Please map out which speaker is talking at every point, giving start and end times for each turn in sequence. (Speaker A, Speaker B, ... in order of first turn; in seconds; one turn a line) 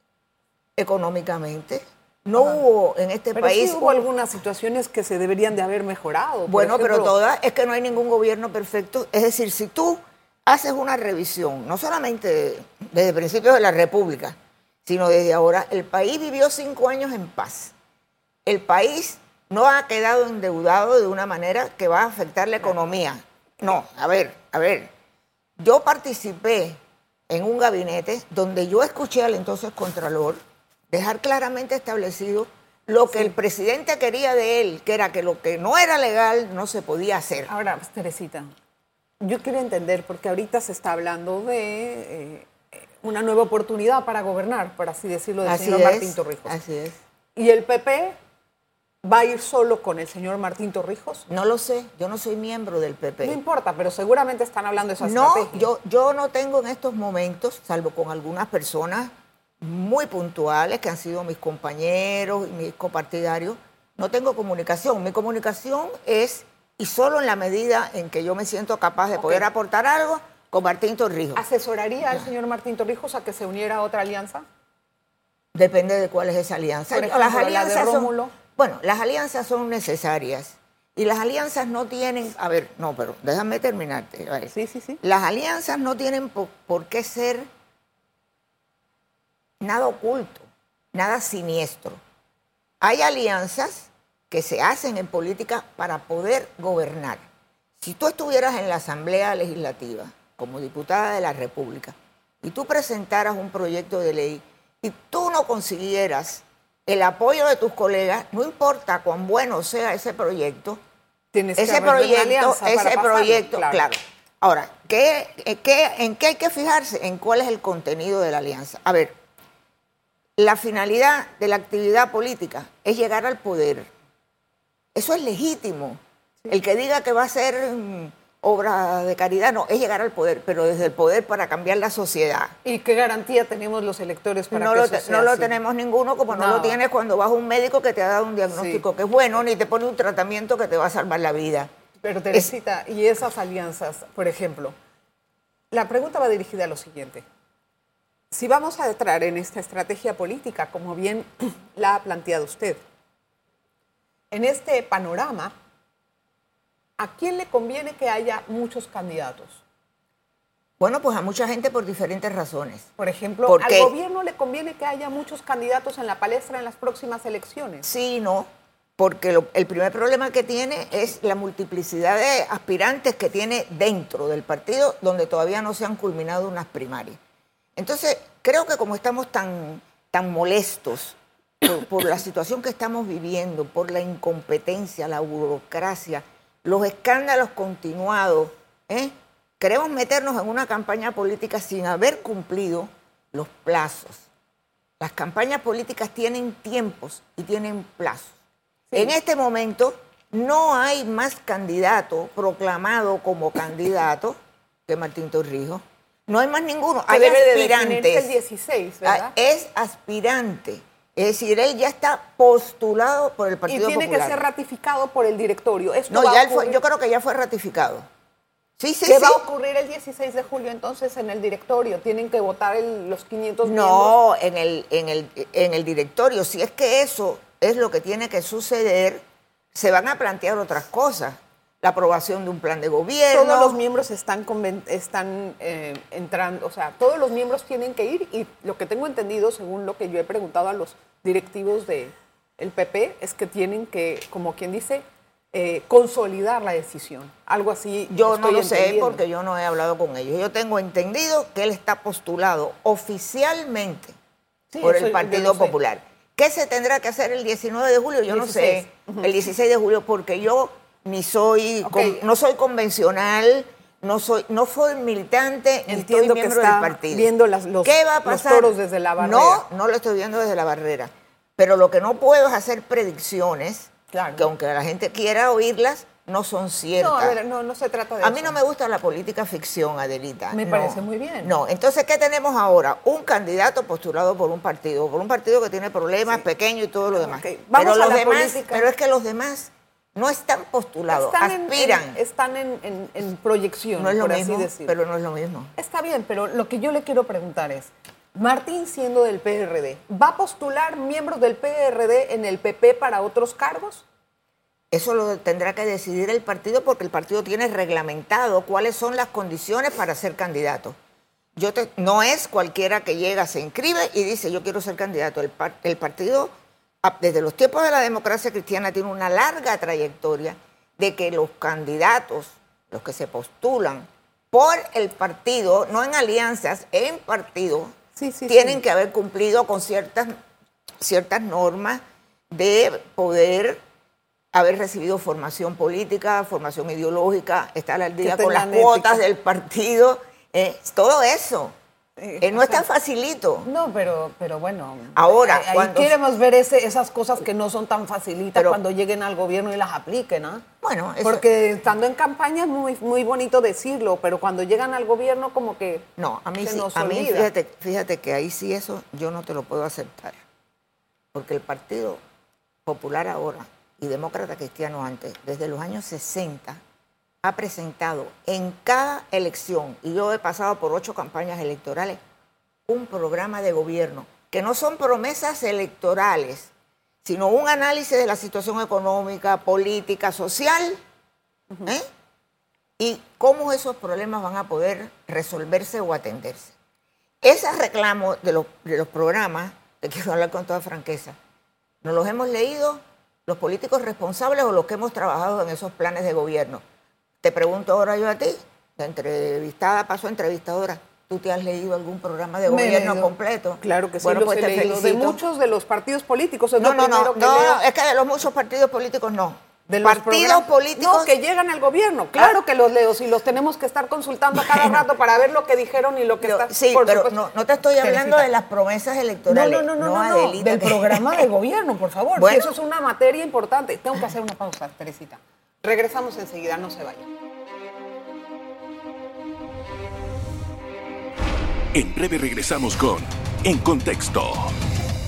Speaker A: 0.8-4.1
Speaker B: 3.3-7.1
Speaker A: 6.5-17.7
Speaker A: 18.4-24.9
Speaker A: 25.6-37.5
Speaker B: 37.5-38.5
Speaker B: 39.2-46.5
Speaker A: 45.4-47.0
Speaker B: 47.4-48.2
Speaker B: 49.0-51.2
Speaker A: 51.3-53.4
Speaker B: 53.2-55.7
Speaker A: 55.0-71.4
Speaker B: 69.2-69.5
Speaker B: 71.3-74.5
Speaker A: 75.5-87.5
Speaker B: 76.9-78.3
Speaker B: 84.5-85.0
Speaker A: 89.6-92.0
Speaker A: 92.8-97.2
Speaker A: 97.8-110.8
Speaker B: 111.3-113.8
Speaker A: 111.6-119.1
Speaker A: 120.4-123.9
Speaker A: 124.9-132.5
Speaker B: 132.6-135.6
Speaker A: 134.5-141.7
Speaker B: 136.3-136.8
Speaker B: 138.5-138.8
Speaker B: 142.0-144.7
Speaker B: 145.7-147.2
Speaker B: 148.3-152.8
Speaker B: 154.3-155.5
Speaker B: 157.0-159.6
Speaker A: 160.8-162.9
Speaker B: 163.0-167.9
Speaker A: 163.4-163.9
Speaker A: 167.8-177.2
Speaker A: 177.8-194.3
Speaker A: 195.0-198.3
Speaker B: 198.9-199.1
Speaker A: 198.9-208.3
Speaker B: 207.1-209.3
Speaker A: 209.0-214.4
Speaker B: 213.7-216.8
Speaker A: 216.1-218.1
Speaker A: 218.8-219.4
Speaker B: 219.1-224.1
Speaker A: 223.6-233.8
Speaker B: 233.3-249.2
Speaker A: 248.1-254.2
Speaker B: 254.7-255.7
Speaker A: 254.8-267.3
Speaker B: 258.3-259.3
Speaker B: 261.8-262.2
Speaker B: 265.9-269.6
Speaker A: 267.8-277.4
Speaker B: 274.1-274.5
Speaker B: 277.0-278.6
Speaker A: 278.2-292.2
Speaker B: 280.5-281.5
Speaker B: 287.1-288.9
Speaker B: 291.1-294.9
Speaker A: 294.0-295.7
Speaker B: 295.8-304.1
Speaker A: 304.9-311.0
Speaker A: 311.6-316.5
Speaker A: 317.0-327.9
Speaker B: 328.1-328.8
Speaker A: 328.5-330.3
Speaker A: 331.0-333.8
Speaker A: 334.5-341.8
Speaker B: 338.2-339.2
Speaker B: 342.2-342.8
Speaker A: 342.4-343.7
Speaker B: 343.6-350.6
Speaker A: 345.1-346.1
Speaker A: 350.8-351.4
Speaker B: 351.2-356.1
Speaker A: 356.2-360.4
Speaker B: 356.6-357.5
Speaker A: 361.3-362.2
Speaker A: 362.8-366.8
Speaker A: 367.4-372.2
Speaker A: 372.9-376.7
Speaker A: 377.2-381.0
Speaker A: 383.0-386.7
Speaker A: 387.4-391.4
Speaker A: 392.0-396.8
Speaker A: 397.4-405.4
Speaker B: 402.6-407.9
Speaker A: 406.8-411.3
Speaker B: 409.9-417.4
Speaker A: 414.5-415.0
Speaker A: 416.4-421.5
Speaker B: 417.9-418.5
Speaker B: 419.5-427.3
Speaker A: 422.4-422.7
Speaker C: 431.9-434.8